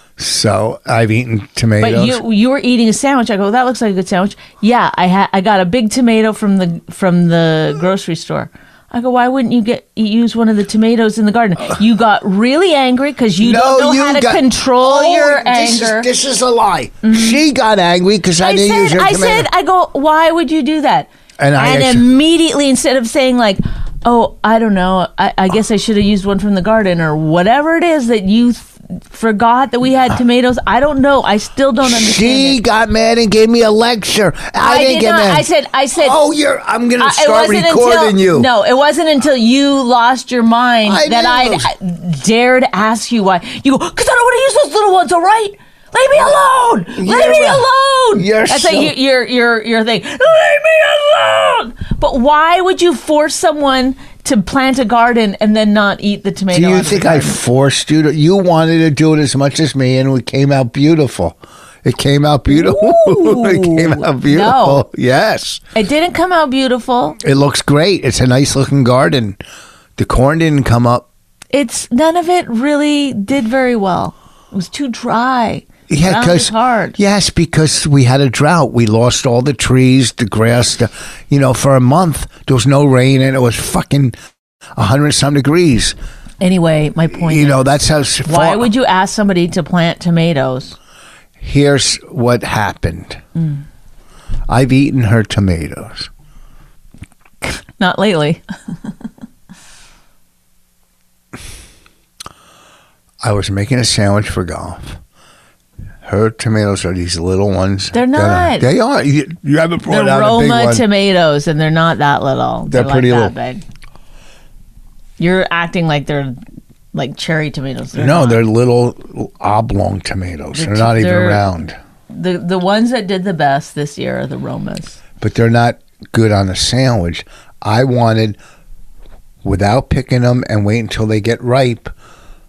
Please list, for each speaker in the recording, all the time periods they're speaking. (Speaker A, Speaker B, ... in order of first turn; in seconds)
Speaker A: 0.2-2.2, 13.4-19.5, 21.4-22.1, 31.8-38.5, 40.9-41.7, 47.0-48.9, 56.5-65.6, 67.2-69.4, 70.0-71.1, 75.9-84.2, 84.8-86.0, 87.1-88.7, 91.4-93.2, 94.5-96.1, 103.2-105.0, 106.0-110.8, 112.7-113.3, 118.0-121.8, 125.2-128.4, 129.4-131.9
Speaker B: 1.8-16.1, 17.0-17.4, 18.4-32.6, 34.6-36.2, 37.0-57.4, 62.5-64.8, 65.8-67.2, 71.5-77.0, 86.4-87.7, 88.2-90.8, 93.4-93.6, 97.4-98.4, 107.9-108.7, 109.9-113.6, 115.2-116.4, 116.9-118.4, 120.5-121.5, 122.1-125.0